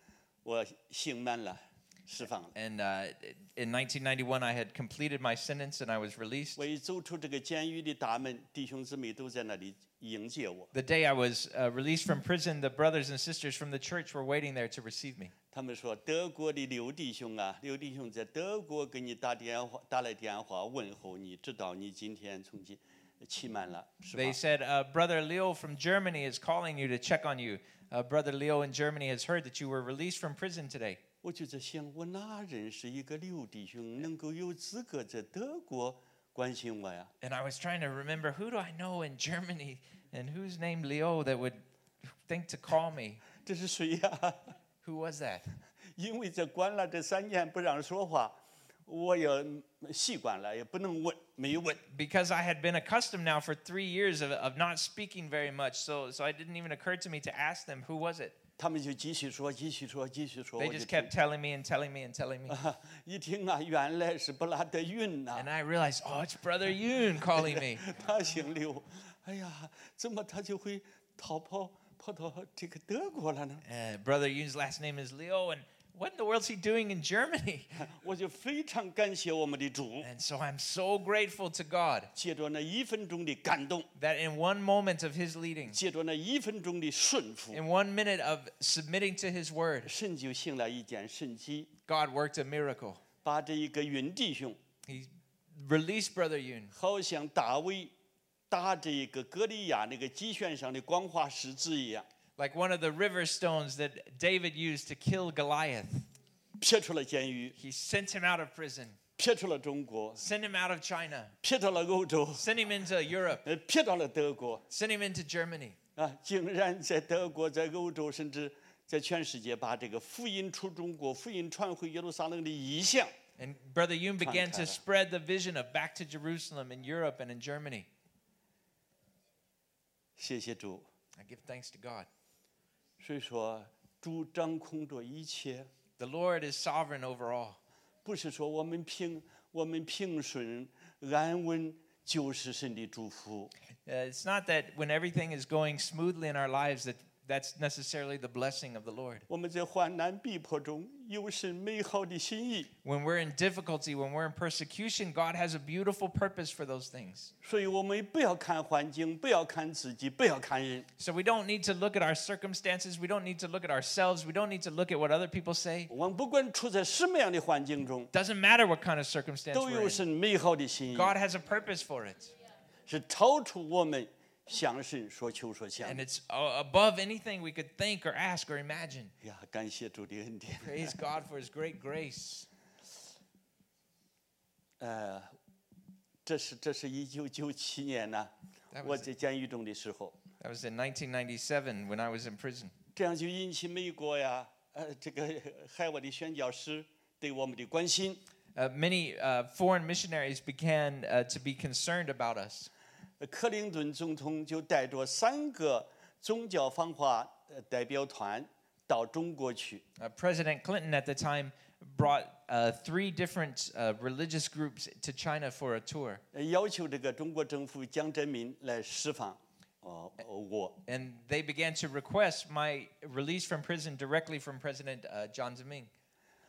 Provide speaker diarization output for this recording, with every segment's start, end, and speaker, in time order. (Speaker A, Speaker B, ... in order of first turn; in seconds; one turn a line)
Speaker A: 0.4-2.5
Speaker B: 2.5-6.7
Speaker A: 6.6-10.7
Speaker B: 10.7-15.3
Speaker A: 15.5-24.4
Speaker B: 24.1-31.0
Speaker A: 31.2-37.1
Speaker B: 37.2-41.6
Speaker B: 42.3-43.2
Speaker A: 43.4-44.5
Speaker B: 44.8-45.5
Speaker A: 46.0-51.8
Speaker B: 51.9-58.4
Speaker A: 58.6-61.1
Speaker B: 60.6-62.6
Speaker A: 62.5-65.5
Speaker B: 65.3-67.9
Speaker A: 67.3-73.6
Speaker B: 73.6-77.8
Speaker A: 77.8-80.1
Speaker B: 80.0-82.1
Speaker A: 82.2-83.9
Speaker B: 84.0-85.8
Speaker A: 85.7-87.6
Speaker B: 87.5-89.9
Speaker A: 89.8-91.7
Speaker B: 91.9-93.0
Speaker A: 93.2-94.6
Speaker B: 94.9-96.7
Speaker A: 96.7-97.9
Speaker A: 98.5-102.1
Speaker B: 102.4-106.1
Speaker A: 106.6-107.5
Speaker B: 107.6-109.0
Speaker A: 109.2-110.2
Speaker B: 110.2-111.3
Speaker A: 111.4-112.5
Speaker B: 112.3-113.5
Speaker A: 113.4-114.6
Speaker B: 114.7-115.8
Speaker A: 116.0-123.1
Speaker B: 123.4-127.9
Speaker A: 124.2-124.8
Speaker A: 130.2-130.9
Speaker B: 131.2-132.1
Speaker A: 133.0-135.7
Speaker B: 136.0-137.6
Speaker A: 138.1-143.5
Speaker B: 143.9-149.3
Speaker A: 149.3-152.7
Speaker B: 152.8-157.3
Speaker A: 157.4-160.9
Speaker B: 161.0-165.9
Speaker A: 165.9-168.1
Speaker B: 168.1-170.0
Speaker A: 169.5-171.2
Speaker B: 170.9-172.3
Speaker A: 172.9-176.0
Speaker B: 175.8-179.1
Speaker A: 179.2-181.0
Speaker B: 180.6-182.5
Speaker A: 184.8-185.3
Speaker A: 186.3-190.2
Speaker B: 188.7-189.1
Speaker B: 190.4-192.7
Speaker A: 192.9-198.2
Speaker B: 198.6-202.7
Speaker A: 203.2-209.8
Speaker B: 210.0-216.2
Speaker A: 216.3-220.8
Speaker B: 220.9-225.9